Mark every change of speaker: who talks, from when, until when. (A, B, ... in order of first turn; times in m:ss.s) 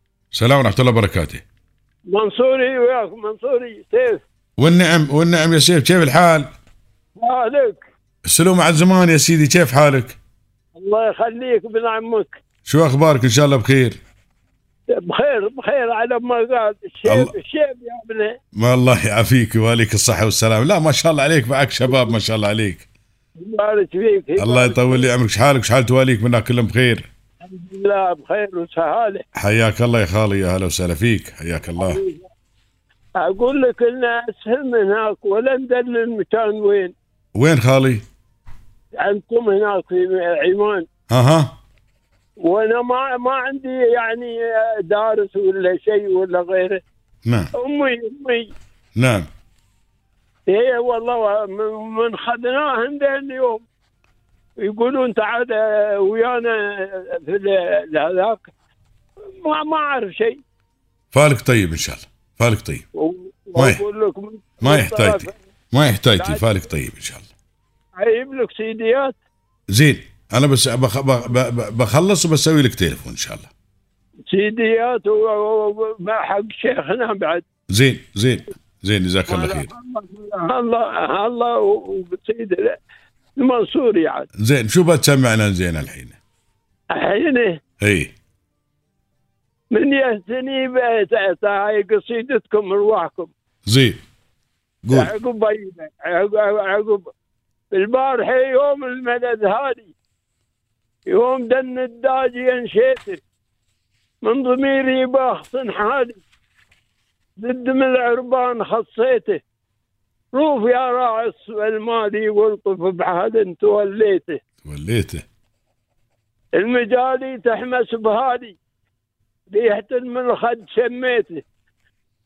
0:00.3-0:01.4 A
0:02.1-0:04.2 B
0:04.6-0:06.5 A
0:07.2-0:07.8 B
0:08.2-0:10.2 A
0:10.8-0:12.4 B
0:12.7-0:14.0 A
0:14.9-0:18.3 B
0:17.1-0:17.3 A
0:18.6-0:22.9 A
0:21.9-0:22.1 B
0:23.4-0:25.1 B
0:24.4-0:27.1 A
0:27.4-0:29.2 B
0:29.4-0:32.0 A
0:31.7-0:32.3 B
0:33.2-0:37.0 B
0:37.4-0:38.0 A
0:39.0-0:40.8 B
0:41.1-0:41.5 A
0:42.4-0:46.8 B
0:47.3-0:47.5 A
0:47.6-0:48.5 B
0:49.0-0:49.3 A
0:50.5-0:53.7 B
0:54.6-0:58.5 B
0:59.3-1:00.4 B
1:01.1-1:02.8 A
1:03.0-1:05.4 B
1:03.6-1:03.8 A
1:04.6-1:07.3 A
1:06.2-1:06.6 B
1:08.0-1:09.2 B
1:09.7-1:13.5 A
1:14.3-1:17.4 B
1:17.7-1:19.7 A
1:19.3-1:22.8 B
1:23.4-1:24.3 B
1:24.4-1:26.2 A
1:26.9-1:27.6 B
1:27.8-1:28.1 A
1:29.7-1:33.3 B
1:33.7-1:34.0 A
1:34.8-1:35.1 A
1:34.9-1:37.1 B
1:37.7-1:40.0 B
1:41.1-1:43.2 B
1:44.2-1:46.2 B
1:47.4-1:49.4 B
1:50.3-1:54.4 B
1:54.6-1:55.2 A
1:56.6-1:58.6 B
1:59.5-2:01.4 B